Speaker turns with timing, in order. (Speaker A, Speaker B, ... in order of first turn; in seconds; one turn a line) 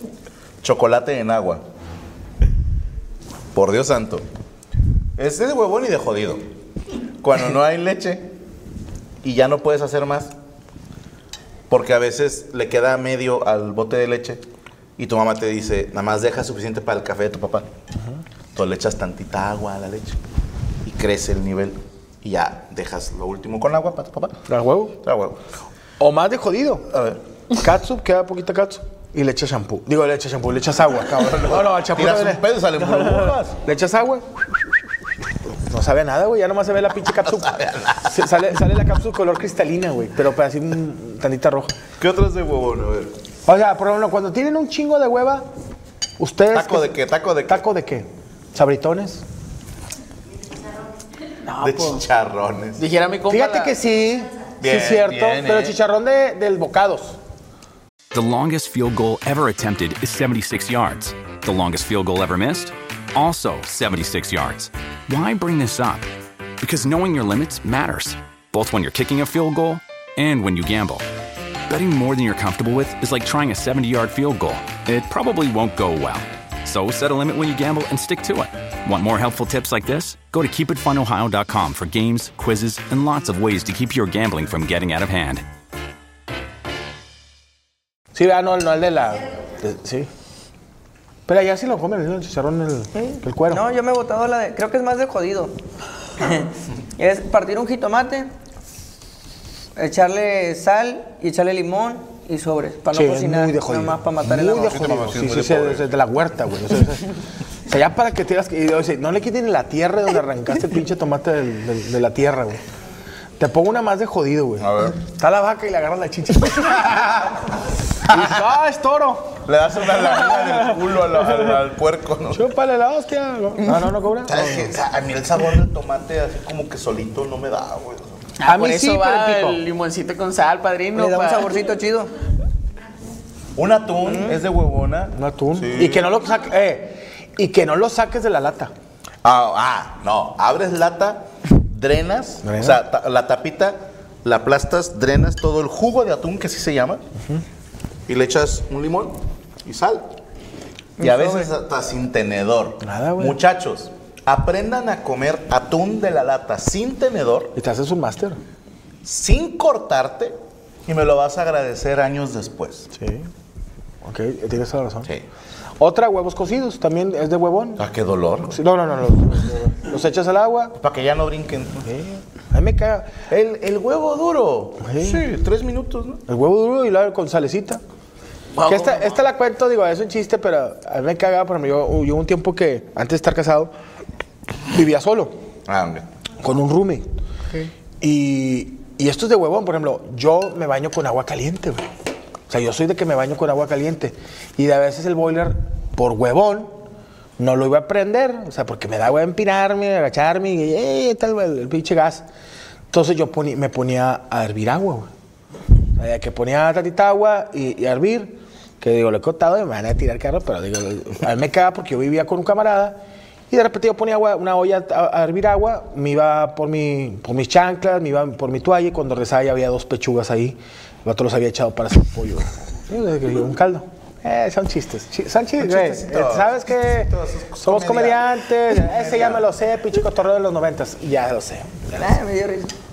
Speaker A: 0.6-1.6
Speaker A: 3.5-4.2
Speaker A: 5.2-6.4
Speaker A: 7.2-8.2
Speaker A: 9.2-10.3
Speaker A: 11.7-14.4
Speaker A: 15.0-17.6
Speaker A: 18.5-20.2
Speaker A: 20.8-24.4
Speaker B: 24.5-24.9
Speaker A: 25.0-25.4
Speaker B: 26.0-26.9
Speaker A: 26.9-27.2
Speaker B: 27.6-34.5
Speaker A: 31.1-33.6
Speaker B: 35.6-41.8
Speaker A: 37.2-38.1
Speaker A: 42.0-43.1
Speaker B: 43.5-45.5
Speaker B: 46.2-49.2
Speaker A: 46.5-47.6
Speaker C: 51.4-52.0
Speaker A: 51.6-52.8
Speaker C: 52.8-53.8
Speaker B: 53.3-57.2
Speaker A: 54.6-55.8
Speaker D: 58.1-66.1
Speaker D: 66.6-71.0
Speaker D: 71.7-85.4
Speaker B: 88.1-90.1
Speaker B: 91.3-93.6
Speaker E: 93.0-95.5
Speaker E: 96.2-98.3
Speaker E: 99.8-104.7
Speaker B: 102.9-107.1
Speaker A: 104.5-105.9
Speaker B: 107.7-112.6
Speaker B: 113.4-119.4
Speaker A: 114.6-115.0
Speaker A: 118.0-118.5
Speaker A: 119.5-122.5
Speaker B: 120.1-120.6
Speaker B: 121.2-121.5
Speaker B: 122.3-124.7
Speaker A: 124.3-128.2
Speaker C: 128.4-131.5
Speaker B: 128.4-129.6
Speaker E: 130.9-132.1
Speaker A: 133.6-136.1
Speaker E: 134.1-134.3
Speaker B: 135.1-138.7
Speaker A: 139.2-147.0
Speaker B: 142.4-142.8
Speaker A: 148.1-150.1
Speaker E: 151.0-151.5
Speaker A: 151.0-157.5
Speaker B: 152.8-153.4
Speaker B: 157.6-158.4
Speaker A: 159.0-160.3
Speaker A: 160.9-162.9
Speaker B: 162.9-163.3
Speaker B: 164.0-165.1
Speaker B: 165.8-167.9
Speaker A: 167.8-168.6
Speaker B: 168.5-170.8
Speaker A: 170.8-171.9
Speaker B: 171.9-173.2
Speaker A: 173.3-176.2
Speaker B: 174.8-175.2
Speaker B: 176.3-177.8
Speaker C: 178.6-179.2
Speaker B: 178.7-183.7
Speaker B: 184.7-185.3
Speaker A: 185.7-186.0
Speaker B: 186.4-187.1
Speaker B: 188.0-191.8
Speaker B: 192.5-196.8
Speaker B: 197.4-202.2
Speaker B: 202.9-205.1
Speaker B: 206.0-232.0
Speaker A: 225.6-229.4
Speaker E: 231.9-232.7